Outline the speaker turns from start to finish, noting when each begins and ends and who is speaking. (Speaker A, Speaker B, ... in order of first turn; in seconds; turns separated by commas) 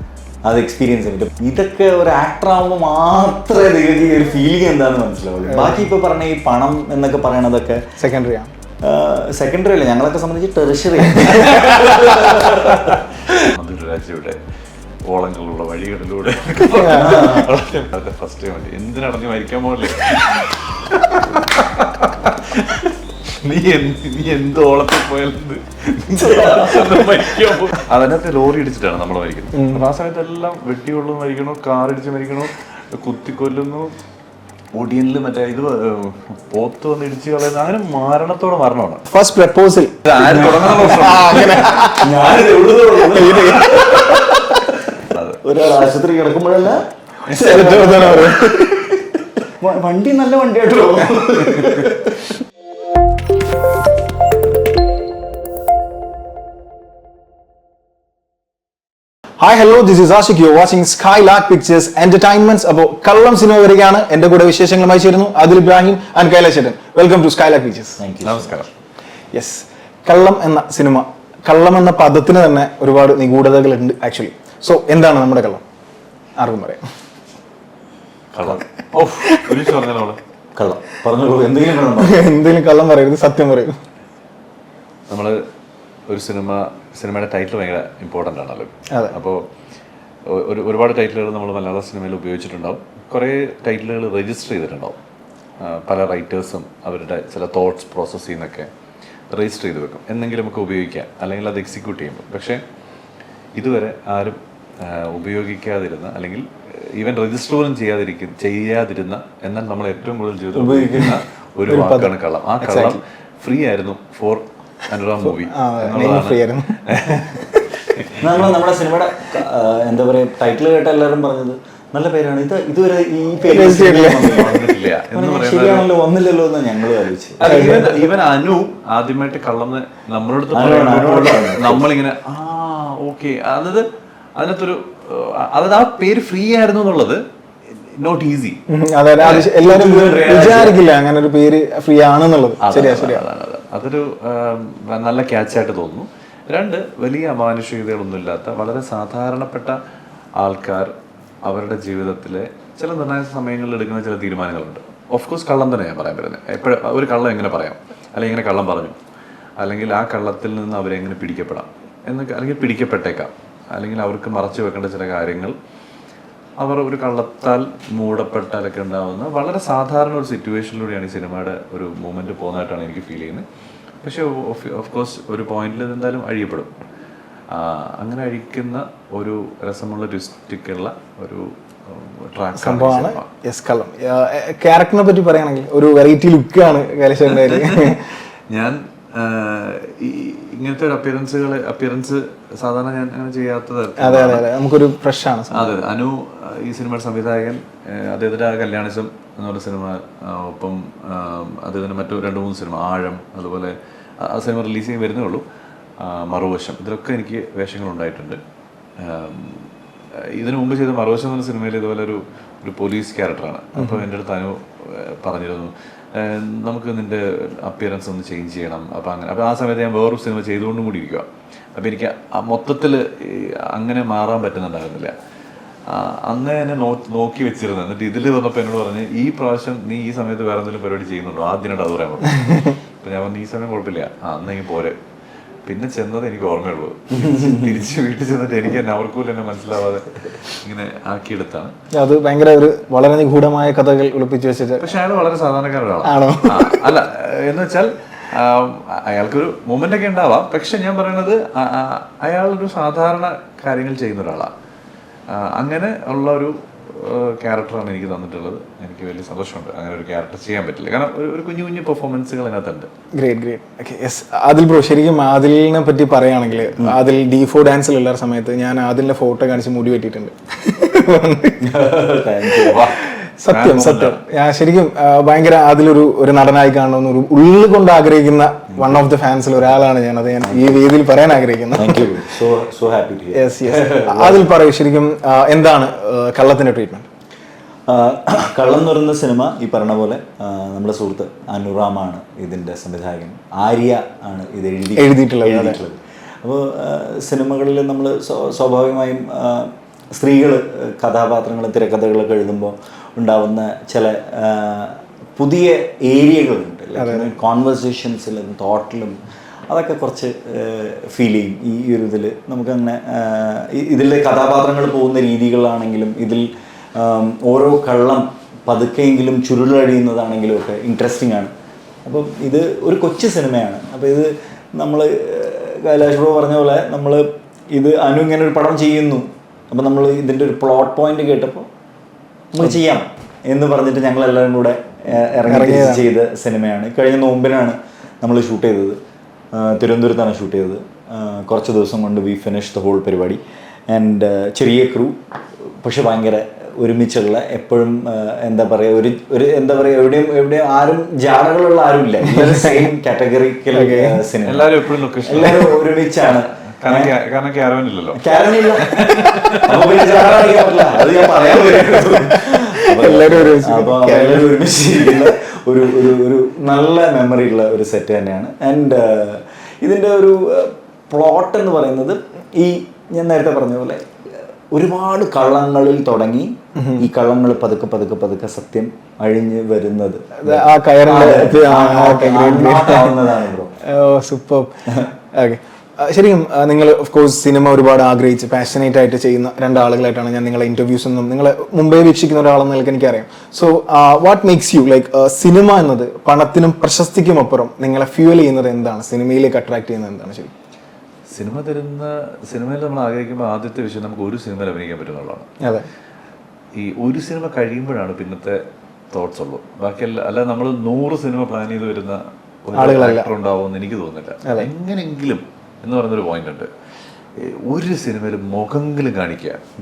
Speaker A: 0.5-7.8, Speaker B: 5.5-5.9, Speaker B: 8.0-8.5, Speaker A: 8.8-13.3, Speaker C: 11.3-14.4, Speaker C: 15.1-33.9, Speaker B: 16.7-17.2, Speaker A: 16.8-17.5, Speaker A: 26.2-27.5, Speaker B: 29.5-29.9, Speaker C: 34.7-39.0, Speaker B: 39.1-40.0, Speaker C: 40.0-42.6, Speaker A: 40.1-52.4, Speaker B: 40.6-42.1, Speaker B: 43.0-43.8, Speaker C: 43.7-44.3, Speaker C: 45.1-45.4, Speaker B: 47.3-48.7, Speaker B: 59.4-68.0, Speaker A: 68.0-68.6, Speaker C: 68.2-68.7, Speaker B: 69.3-75.6, Speaker B: 76.4-76.8, Speaker C: 78.3-80.2, Speaker A: 80.5-82.3, Speaker B: 82.0-83.8, Speaker C: 85.1-85.5, Speaker C: 86.1-89.4, Speaker C: 90.2-95.0, Speaker C: 95.6-98.7, Speaker C: 99.3-102.6, Speaker C: 103.5-118.5, Speaker A: 110.5-111.2, Speaker B: 111.7-113.0, Speaker B: 115.2-117.6, Speaker A: 118.2-127.9, Speaker B: 123.5-124.5, Speaker C: 124.2-125.9, Speaker C: 127.4-138.6, Speaker B: 127.4-128.0, Speaker A: 130.5-131.8, Speaker B: 138.7-143.2, Speaker C: 139.2-139.5, Speaker A: 139.3-140.8, Speaker C: 142.6-149.8, Speaker C: 150.3-150.9, Speaker C: 151.4-159.0, Speaker C: 159.6-165.6, Speaker C: 166.6-173.5, Speaker C: 174.0-176.7, Speaker C: 177.5-183.3, Speaker B: 182.6-188.0, Speaker C: 187.2-194.5, Speaker B: 194.0-195.6, Speaker C: 195.5-205.4, Speaker C: 206.0-208.4, Speaker C: 209.0-209.7, Speaker C: 210.3-225.1, Speaker B: 213.8-214.1, Speaker C: 225.9-234.9, Speaker B: 232.3-232.8, Speaker C: 235.6-241.7, Speaker A: 237.1-237.8, Speaker B: 241.9-244.8, Speaker C: 244.8-254.5, Speaker B: 246.0-246.9, Speaker C: 255.3-262.9, Speaker B: 263.1-271.7, Speaker A: 271.6-272.8, Speaker C: 272.6-274.2, Speaker B: 273.4-282.3, Speaker A: 278.7-279.0, Speaker A: 280.4-280.8, Speaker A: 281.8-284.5, Speaker B: 283.3-287.1, Speaker A: 287.9-309.2, Speaker B: 295.0-295.8, Speaker B: 306.9-307.3, Speaker A: 309.7-321.5, Speaker A: 322.0-331.7, Speaker A: 332.5-339.0, Speaker B: 335.5-336.1, Speaker A: 339.5-357.1, Speaker B: 352.2-352.9, Speaker B: 353.7-354.2, Speaker C: 354.4-358.2, Speaker A: 358.1-383.7, Speaker C: 358.8-362.0, Speaker B: 362.1-364.6, Speaker B: 376.8-377.1, Speaker B: 380.4-383.2, Speaker B: 383.8-384.7, Speaker B: 385.3-400.5, Speaker C: 401.3-405.5, Speaker B: 405.6-405.9, Speaker C: 406.7-416.7, Speaker B: 412.8-413.3, Speaker B: 414.4-414.7, Speaker C: 417.3-419.6